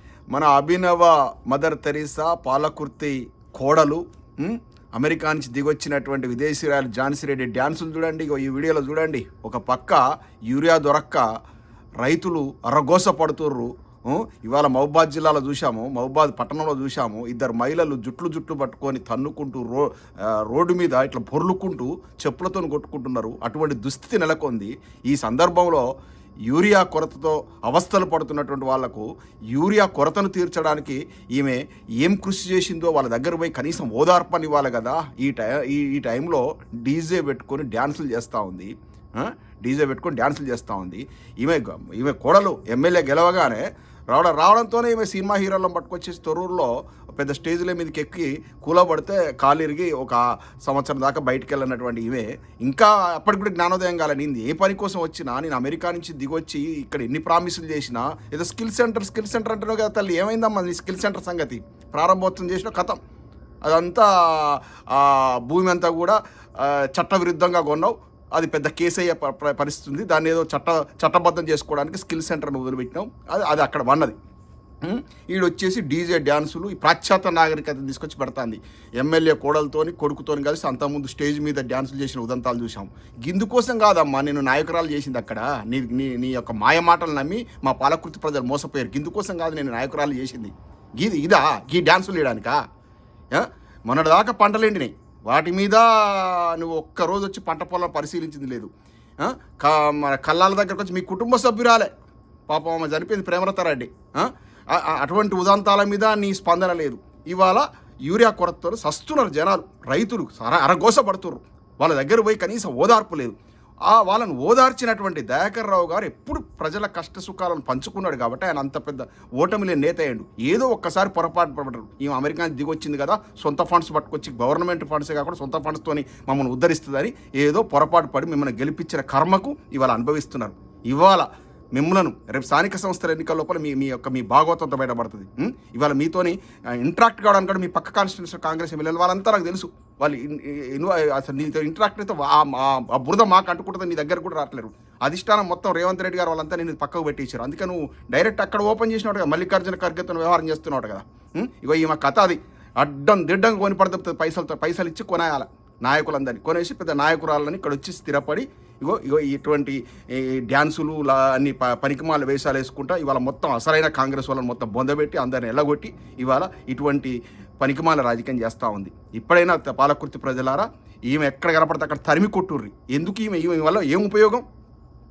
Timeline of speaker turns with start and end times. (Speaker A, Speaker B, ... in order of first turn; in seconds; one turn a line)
Speaker A: 0.3-11.2
Speaker A: 12.0-25.9
Speaker A: 26.5-63.0
Speaker A: 63.6-74.2
Speaker A: 74.8-92.6
Speaker A: 93.3-98.7
Speaker A: 99.2-101.9
Speaker A: 102.5-113.4
Speaker A: 113.9-174.4